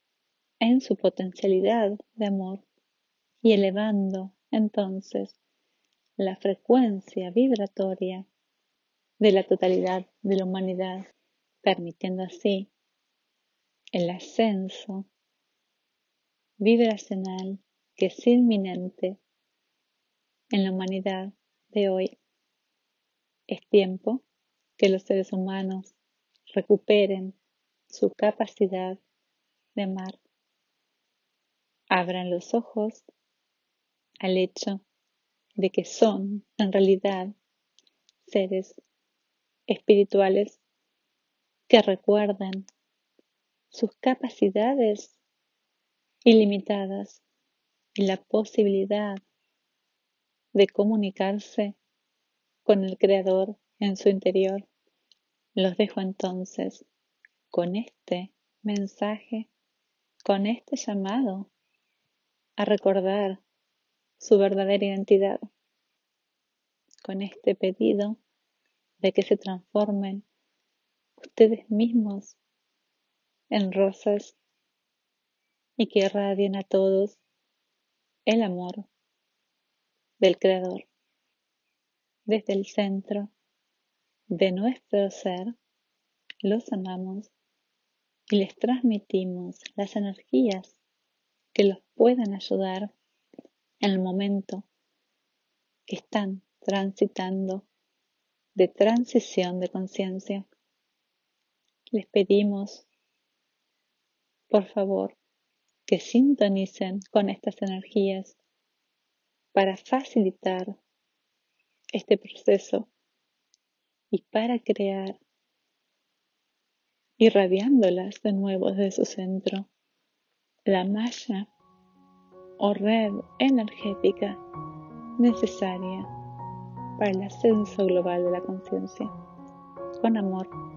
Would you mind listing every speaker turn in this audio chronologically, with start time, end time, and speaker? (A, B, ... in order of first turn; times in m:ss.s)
0:00.6-0:02.6 A
0:03.4-0:05.4 A
0:06.2-0:08.3 A
0:09.2-0:11.1 A
0:11.6-0:12.7 A
0:13.9-0:15.1 A
0:16.6-0:19.2 A
0:20.5-0:22.1 A
0:23.5-0:24.2 A
0:24.8-0:25.9 A
0:26.5-0:27.4 A
0:27.9-0:29.0 A
0:29.7-0:30.2 A
0:31.9-0:33.0 A
0:34.2-0:34.8 A
0:35.6-0:37.3 A
0:38.2-0:38.8 A
0:39.7-0:40.6 A
0:41.7-0:42.7 A
0:43.7-0:45.2 A
0:46.2-0:47.2 A
0:47.9-0:49.2 A
0:50.5-0:51.8 A
0:52.6-0:54.6 A
0:55.5-0:56.8 A
0:57.5-0:59.5 A
1:00.2-1:01.5 A
1:02.6-1:03.4 A
1:04.2-1:05.5 A
1:07.0-1:08.2 A
1:09.0-1:10.2 A
1:11.2-1:12.4 A
1:13.5-1:14.4 A
1:15.8-1:17.2 A
1:18.2-1:18.9 A
1:20.2-1:20.9 A
1:22.3-1:23.3 A
1:24.3-1:25.5 A
1:26.4-1:27.3 A
1:28.3-1:30.8 A
1:31.5-1:32.9 A
1:33.8-1:34.7 A
1:35.9-1:37.6 A
1:38.5-1:40.5 A
1:41.9-1:42.9 A
1:44.5-1:45.2 A
1:45.9-1:48.4 A
1:49.5-1:50.8 A
1:51.9-1:52.9 A
1:54.1-1:55.2 A
1:57.2-1:59.7 A
2:00.6-2:01.5 A
2:02.6-2:04.4 A
2:05.2-2:06.1 A
2:07.0-2:09.1 A
2:10.0-2:10.5 A